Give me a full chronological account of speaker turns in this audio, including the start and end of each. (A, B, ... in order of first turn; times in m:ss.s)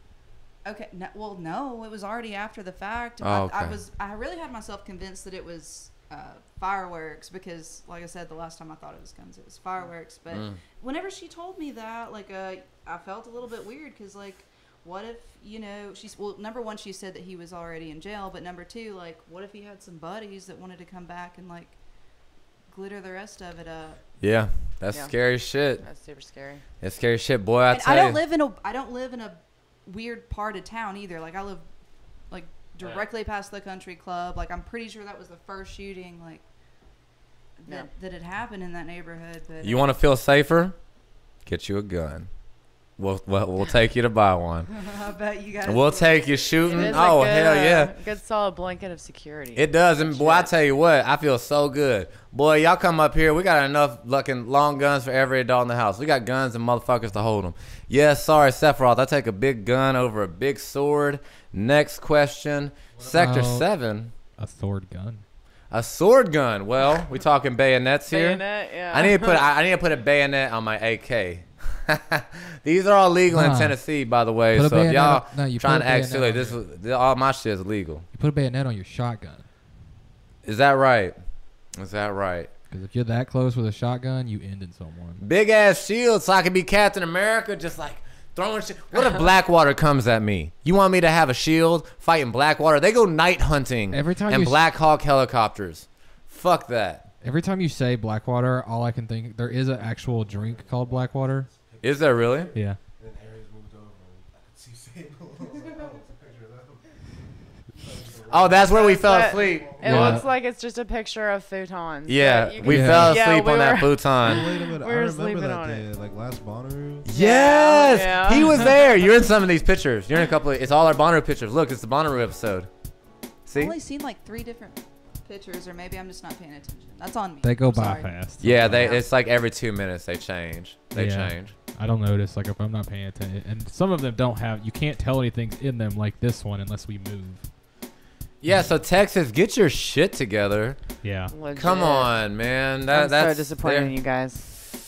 0:00.6-0:24.2 A
0:03.2-0:03.8 B
0:10.3-0:10.6 B
0:24.2-0:25.8 B
0:24.9-0:26.6 C
0:26.8-0:28.2 B
0:27.7-0:31.6 A
0:32.3-0:36.4 A
0:37.6-0:40.0 A
0:39.6-0:40.8 B
0:41.4-0:42.3 B
0:43.0-0:44.7 B
0:44.7-0:47.2 A
0:45.6-0:47.9 B
0:46.7-0:50.5 C
0:49.6-1:04.1 B
1:03.0-1:05.2 D
1:05.7-1:18.1 B
1:08.1-1:09.4 C
1:13.3-1:16.6 D
1:18.1-1:19.5 D
1:20.4-1:21.2 B
1:21.7-1:22.5 B
1:22.7-1:25.2 D
1:25.2-1:37.1 B
1:33.9-1:34.7 D
1:37.2-1:41.5 D
1:40.0-1:47.1 E
1:41.8-1:42.5 B
1:42.5-1:42.8 D
1:47.8-1:50.2 E
1:48.3-1:50.2 B
1:48.6-1:55.9 C
1:49.8-1:50.3 D
1:52.1-1:54.5 B
1:52.7-1:53.2 D
1:54.2-1:57.1 E
1:57.0-2:02.7 B
1:57.1-1:58.9 C
2:03.5-2:03.7 B
2:03.6-2:09.0 A
2:07.4-2:08.9 D
2:08.4-2:11.6 B
2:10.9-2:17.6 D
2:18.4-2:21.0 B
2:21.0-2:21.3 D
2:21.3-2:24.5 C
2:21.6-2:24.0 B